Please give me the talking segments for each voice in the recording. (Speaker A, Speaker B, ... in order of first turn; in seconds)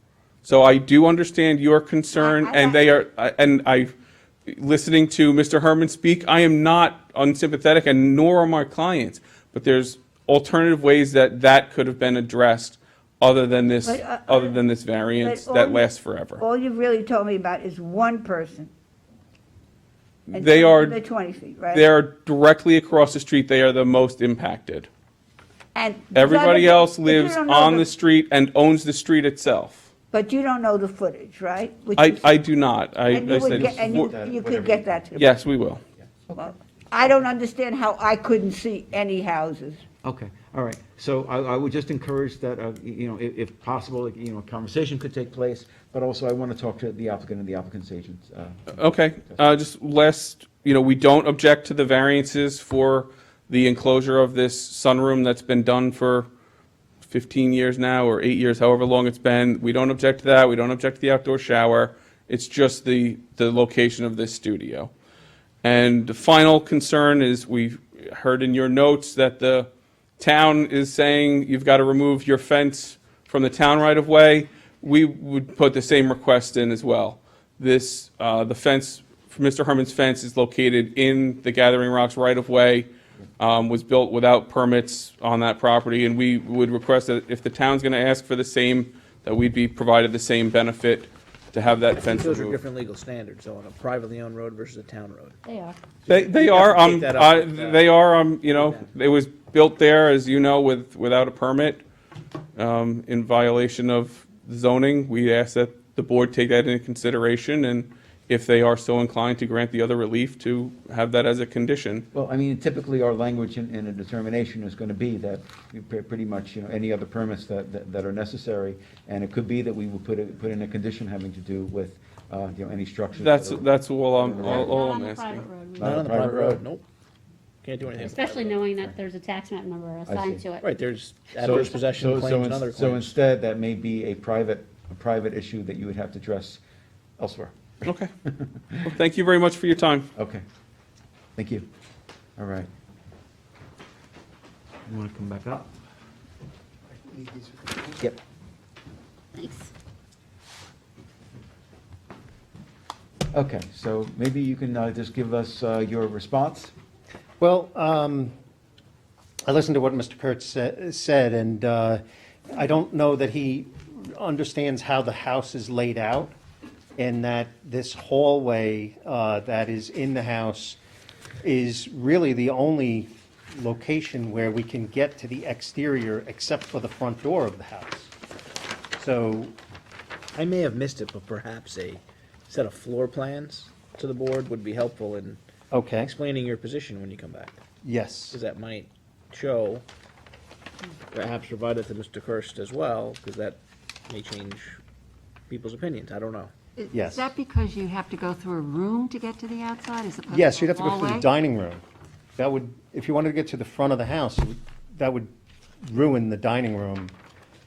Speaker A: 0.4-3.9, 4.5-16.4, 20.3-20.9, 21.7-24.9, 26.1-29.9, 32.0-34.1, 35.1-35.8, 48.7-56.3, 57.0-64.9, 65.6-92.6, 96.1-101.8, 102.5-112.0, 123.2-125.5, 137.8-138.1, 138.8-140.1
Speaker B: 2.2-2.9, 13.8-14.6, 15.1-18.7, 20.3-21.9, 25.7-27.9, 30.1-32.3, 33.1-35.3, 36.3-39.8
Speaker C: 33.2-35.0, 36.3-36.5, 40.0-48.8, 112.1-124.7, 125.8-126.6, 130.1-130.4, 131.4-136.6, 137.2-137.6, 140.1-140.4, 141.3-141.7, 142.4-142.7, 144.8-145.7, 153.3-156.7
Speaker D: 92.1-95.3, 96.0-97.9, 98.4-98.9, 125.8-126.8, 127.6-128.6, 130.6-133.2, 180.3-185.4, 186.0-187.6, 188.3-189.8, 191.1-194.8, 195.5-196.5
Speaker E: 95.5-95.8, 124.3-126.0, 128.0-130.7, 149.3-149.7
Speaker F: 147.1-147.8, 157.4-158.3, 159.4-166.3, 167.0-170.8, 171.4-178.1, 178.9-179.5, 185.7-186.1, 187.8-188.4, 196.9-197.3, 200.3-201.8, 202.4-205.3, 205.8-207.1
Speaker G: 196.8-201.2